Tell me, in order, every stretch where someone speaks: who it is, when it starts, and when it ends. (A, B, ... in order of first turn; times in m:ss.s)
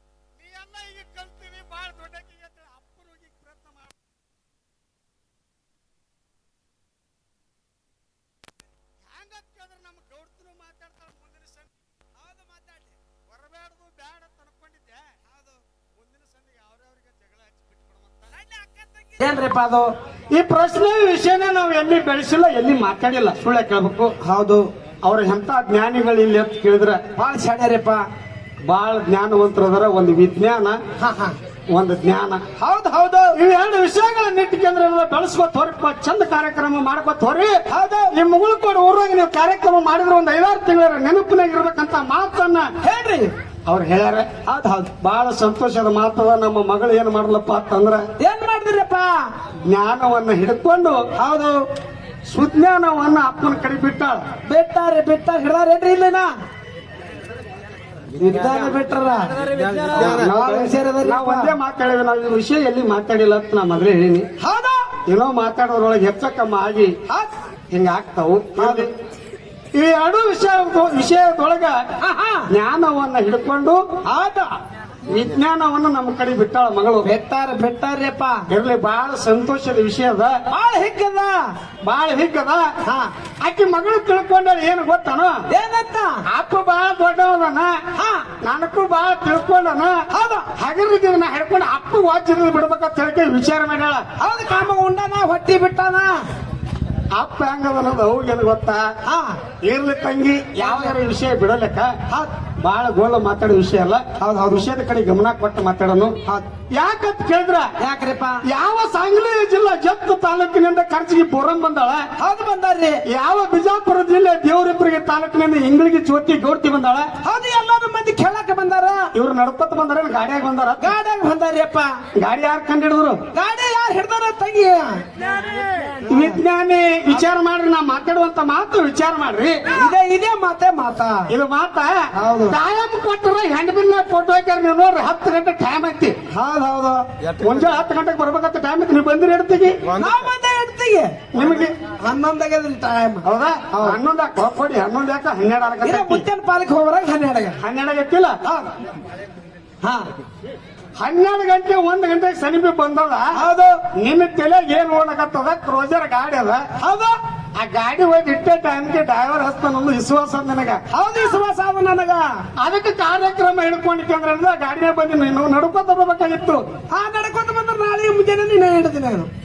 0:00.4-0:04.0 A
0:09.1-0:11.7 A
0:12.2-0:13.0 B
0:13.3-0:15.2 A
0:15.3-0:15.6 B
0:15.9-0:18.3 A
0:18.3-0:19.9 B
0:20.3-0:24.2 A
0:24.2-0:24.7 B
0:25.0-0:27.0 A
0:27.2-0:28.1 B
0:28.7-0:30.8 A
0:31.0-0:31.4 B
0:31.7-0:32.4 A
0:32.6-0:33.4 B
0:33.3-0:37.6 A
0:37.7-0:38.2 B
0:38.1-0:42.7 A
0:42.8-0:43.3 B
0:43.7-0:44.3 A
0:44.5-0:44.9 B
0:45.0-0:48.1 A
0:48.2-0:49.3 B
0:49.7-0:51.0 A
0:51.2-0:51.6 B
0:52.3-0:54.2 A
0:54.5-0:56.3 B
0:58.2-1:01.5 B
0:59.9-1:04.3 A
1:04.4-1:04.9 B
1:05.1-1:07.0 A
1:07.7-1:08.9 A
1:08.6-1:08.9 B
1:09.7-1:11.8 A
1:12.0-1:12.5 B
1:12.5-1:13.8 A
1:14.1-1:14.6 B
1:15.1-1:17.1 A
1:17.0-1:18.5 B
1:18.5-1:20.4 A
1:20.5-1:21.4 B
1:21.8-1:22.7 A
1:22.9-1:23.1 B
1:23.4-1:25.4 A
1:25.5-1:26.2 B
1:26.3-1:27.7 A
1:28.0-1:28.3 B
1:28.4-1:34.1 A
1:30.1-1:30.5 B
1:34.2-1:36.3 B
1:37.1-1:38.9 A
1:39.0-1:39.4 B
1:39.6-1:41.9 A
1:40.6-1:41.0 B
1:42.6-1:46.2 A
1:44.2-1:44.7 B
1:46.7-1:47.7 A
1:47.8-1:48.4 B
1:48.4-1:52.1 A
1:52.2-1:53.0 B
1:53.1-1:57.1 A
1:57.2-1:59.1 B
1:59.1-2:01.0 A
2:00.8-2:02.0 B
2:02.2-2:03.2 A
2:03.3-2:06.4 B
2:06.0-2:09.8 A
2:09.7-2:11.3 B
2:11.3-2:16.2 A
2:12.2-2:12.6 B
2:16.3-2:17.0 B
2:17.4-2:19.9 A
2:19.9-2:21.2 B
2:21.3-2:21.8 A
2:22.0-2:24.0 B
2:23.2-2:26.2 A
2:25.8-2:27.6 B
2:27.6-2:28.4 A
2:28.5-2:28.7 B
2:29.8-2:30.1 B
2:31.0-2:33.3 A
2:33.4-2:33.8 B
2:34.0-2:36.7 A
2:36.8-2:37.2 B
2:37.6-2:40.8 A
2:40.9-2:42.3 B
2:42.6-2:46.6 A
2:46.9-2:49.3 B